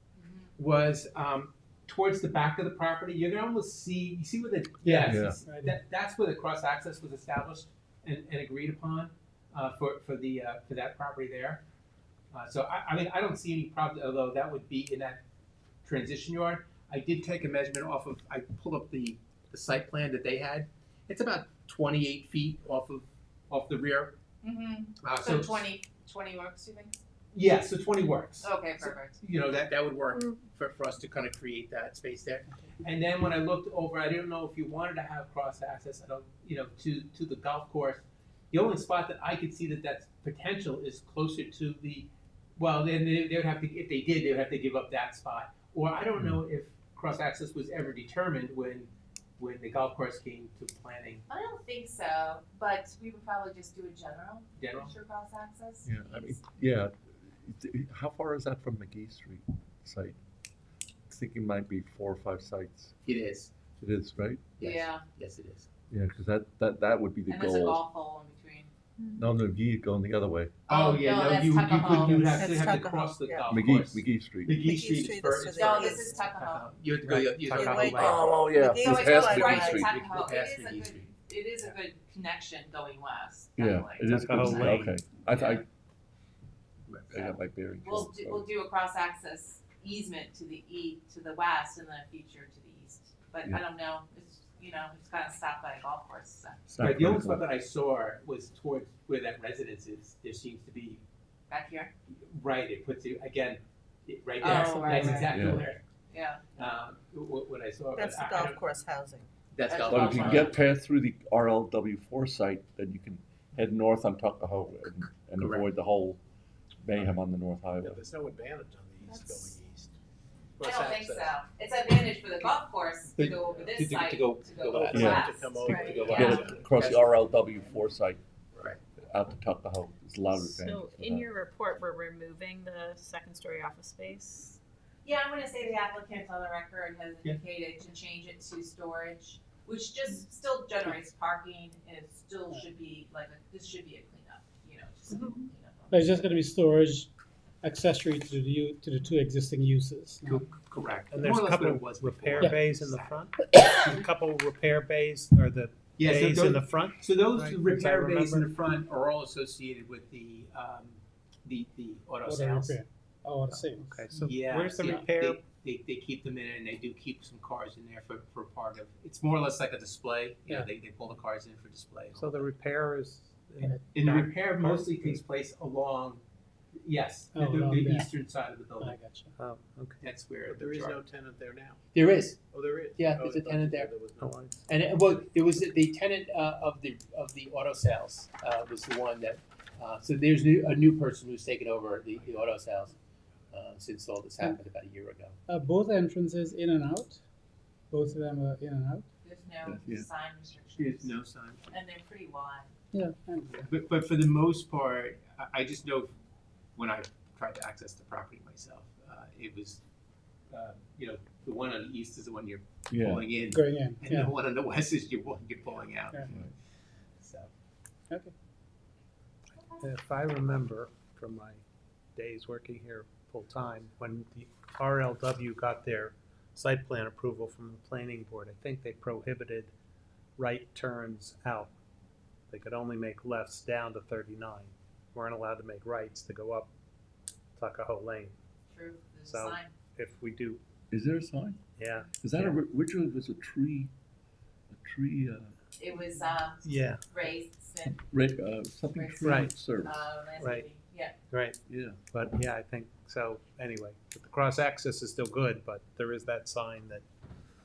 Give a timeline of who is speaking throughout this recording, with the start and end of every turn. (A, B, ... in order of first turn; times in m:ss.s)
0:00.2-0:00.5 A
0:00.6-0:11.6 B
0:05.0-0:05.4 C
0:05.4-0:05.8 D
0:12.3-0:15.2 B
0:15.8-0:24.2 B
0:24.4-0:27.0 A
0:25.0-0:25.6 B
0:27.3-0:51.2 B
0:28.4-0:29.2 A
0:51.3-0:56.4 A
0:54.6-0:54.9 B
0:55.8-1:00.2 C
1:01.1-1:02.9 C
1:03.0-1:03.5 B
1:03.8-1:04.4 C
1:04.6-1:05.7 B
1:04.6-1:05.0 A
1:05.9-1:07.8 C
1:07.3-1:08.7 A
1:09.2-1:10.5 C
1:10.7-1:12.4 A
1:10.7-1:18.3 B
1:12.3-1:13.5 E
1:13.5-1:14.6 C
1:14.5-1:16.2 E
1:15.6-1:16.7 A
1:17.0-1:18.1 F
1:17.4-1:19.8 E
1:17.9-1:20.0 C
1:18.8-1:25.6 A
1:19.3-1:21.1 B
1:23.6-1:25.6 C
1:24.1-1:25.0 F
1:27.1-1:28.5 C
1:27.8-1:36.6 A
1:36.7-1:37.4 C
1:36.8-1:41.0 B
1:41.5-1:41.9 A
1:42.2-1:45.8 B
1:44.4-1:46.4 A
1:45.3-1:45.6 C
1:46.5-1:48.6 B
1:47.9-1:49.3 E
1:49.5-1:50.6 B
1:49.6-1:50.6 A
1:49.8-1:56.2 C
1:55.4-1:55.7 B
1:56.8-1:58.0 C
1:57.8-1:59.9 G
1:59.0-1:59.5 H
2:00.6-2:01.3 G
2:00.6-2:06.3 A
2:03.1-2:07.0 B
2:04.6-2:08.0 G
2:04.9-2:08.2 C
2:09.0-2:11.3 C
2:10.3-2:14.6 H
2:15.0-2:26.1 A
2:25.9-2:27.1 D
2:27.6-2:30.5 D
2:30.3-2:33.2 B
2:31.1-2:38.5 F
2:36.0-2:42.8 B
2:42.2-2:44.1 D
2:43.5-2:45.4 F
2:44.1-2:52.5 B
2:52.1-2:55.2 F
2:53.6-2:53.8 D
2:53.9-2:56.2 B
2:56.8-2:59.0 B
2:57.3-2:58.1 D
2:58.8-2:59.3 D
2:59.4-3:00.0 F
3:00.0-3:01.0 B
3:00.4-3:01.8 G
3:01.9-3:02.4 B
3:02.5-3:04.4 G
3:03.0-3:03.9 B
3:04.2-3:04.6 F
3:04.7-3:13.0 B
3:12.1-3:12.5 G
3:13.5-3:15.4 B
3:15.5-3:17.2 D
3:17.9-3:19.0 D
3:19.2-3:21.2 A
3:19.6-3:20.1 C
3:20.8-3:21.7 B
3:21.7-3:22.7 A
3:22.9-3:23.7 D
3:23.6-3:26.1 B
3:26.8-3:29.8 B
3:30.5-3:36.3 B
3:32.9-3:33.2 C
3:33.5-3:34.3 D
3:36.2-3:36.5 C
3:37.2-3:37.5 B
3:39.6-3:39.8 A
3:39.8-3:41.6 F
3:42.2-3:49.7 F
3:50.4-3:51.7 F
3:52.5-3:56.7 F
3:57.6-3:58.3 F
3:58.7-3:59.7 A
3:59.2-4:00.6 F
4:00.9-4:01.6 C
4:01.8-4:02.6 F
4:02.2-4:03.9 C
4:04.7-4:05.5 C
4:05.8-4:08.0 A
4:06.6-4:07.0 F
4:07.8-4:10.1 C
4:08.9-4:11.2 A
4:09.2-4:09.5 F
4:10.4-4:10.7 F
4:11.3-4:11.6 F
4:11.7-4:12.0 C
4:12.1-4:17.0 F